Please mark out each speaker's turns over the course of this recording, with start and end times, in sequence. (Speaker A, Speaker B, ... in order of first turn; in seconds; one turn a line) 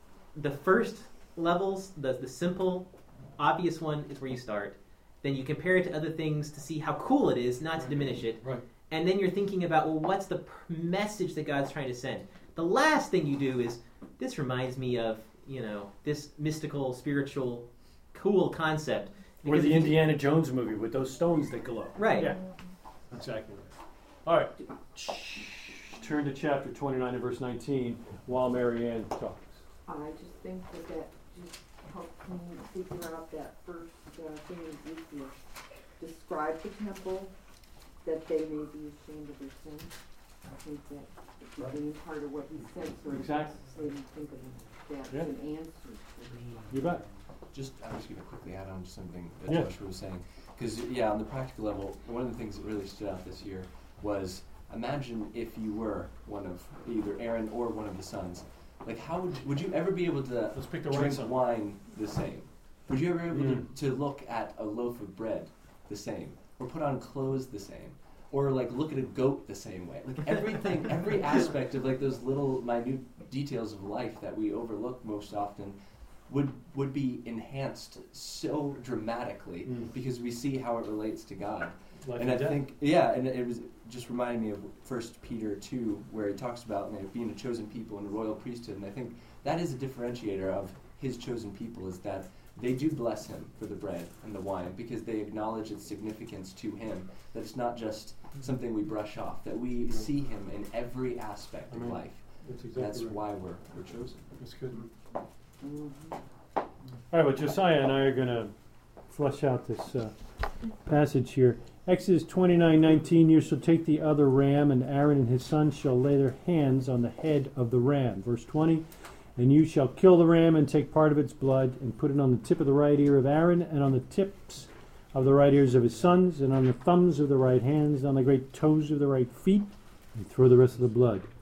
Speaker A: 0.3-20.0
Speaker B: 7.8-8.6
Speaker B: 19.4-22.4
Speaker A: 22.0-22.4
Speaker B: 23.1-29.6
Speaker C: 29.9-35.4
Speaker C: 36.0-37.3
Speaker C: 38.0-46.7
Speaker B: 43.1-43.6
Speaker B: 46.7-47.0
Speaker D: 47.5-104.2
Speaker B: 49.5-49.7
Speaker B: 60.5-61.4
Speaker B: 63.3-63.7
Speaker B: 79.6-79.9
Speaker B: 82.0-82.7
Speaker B: 101.7-104.8
Speaker C: 105.6-106.2
Speaker B: 107.1-108.5
Speaker B: 109.1-110.2
Speaker B: 110.8-131.3